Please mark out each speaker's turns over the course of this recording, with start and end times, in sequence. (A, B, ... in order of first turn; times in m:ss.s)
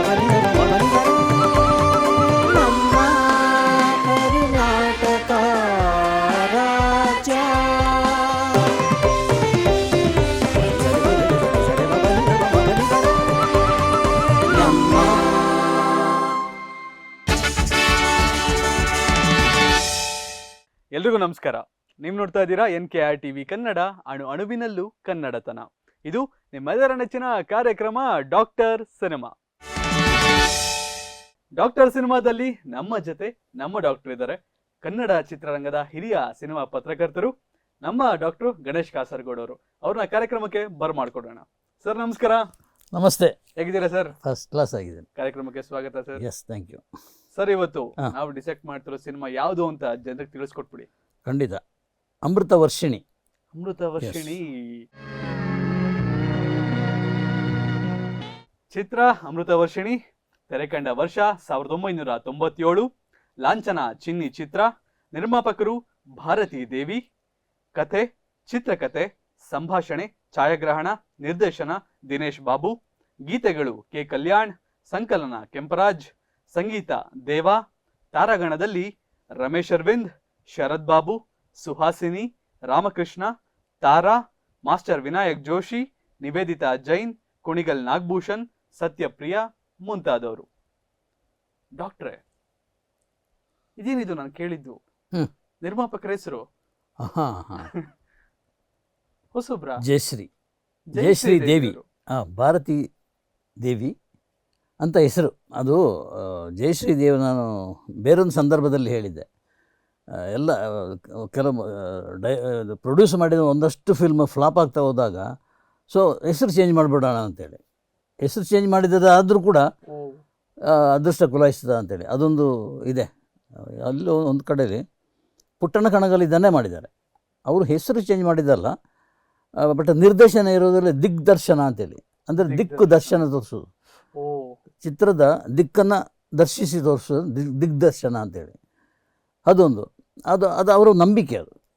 0:02.6-0:03.3 A
0:04.2-0:07.8 A
0:10.7-0:12.9 A
0:14.5-0:15.4 A
0:21.0-0:29.3 B
0:31.6-0:37.3 B
0:37.8-0:42.4 B
0:42.9-0:43.3 A
0:43.6-0:44.1 B
0:44.2-0:45.0 A
0:45.2-0:46.2 B
0:46.2-0:46.8 A
0:47.3-0:50.9 B
0:51.2-0:51.6 A
0:52.2-0:53.0 A
0:53.5-0:54.8 B
0:54.0-0:54.4 A
0:58.7-1:02.9 B
1:03.4-1:07.0 B
1:07.8-1:12.7 B
1:13.3-1:17.6 B
1:18.1-1:23.3 B
1:23.8-1:30.5 B
1:31.8-1:32.2 B
1:33.8-1:34.8 B
1:35.6-1:36.4 B
1:37.0-1:37.7 A
1:39.3-1:39.8 B
1:39.8-1:40.3 A
1:40.9-1:41.8 B
1:41.0-1:42.8 A
1:43.6-1:43.9 A
1:44.8-1:47.5 A
1:48.0-1:49.2 A
1:50.3-1:55.2 A
1:55.9-1:57.6 A
1:58.2-1:59.6 A
1:59.9-2:00.2 B
2:00.7-2:04.8 A
2:05.6-2:06.9 A
2:07.5-2:08.7 A
2:09.6-2:13.7 A
2:12.4-2:13.2 B
2:14.2-2:14.6 B
2:14.8-2:18.6 A
2:19.5-2:21.5 A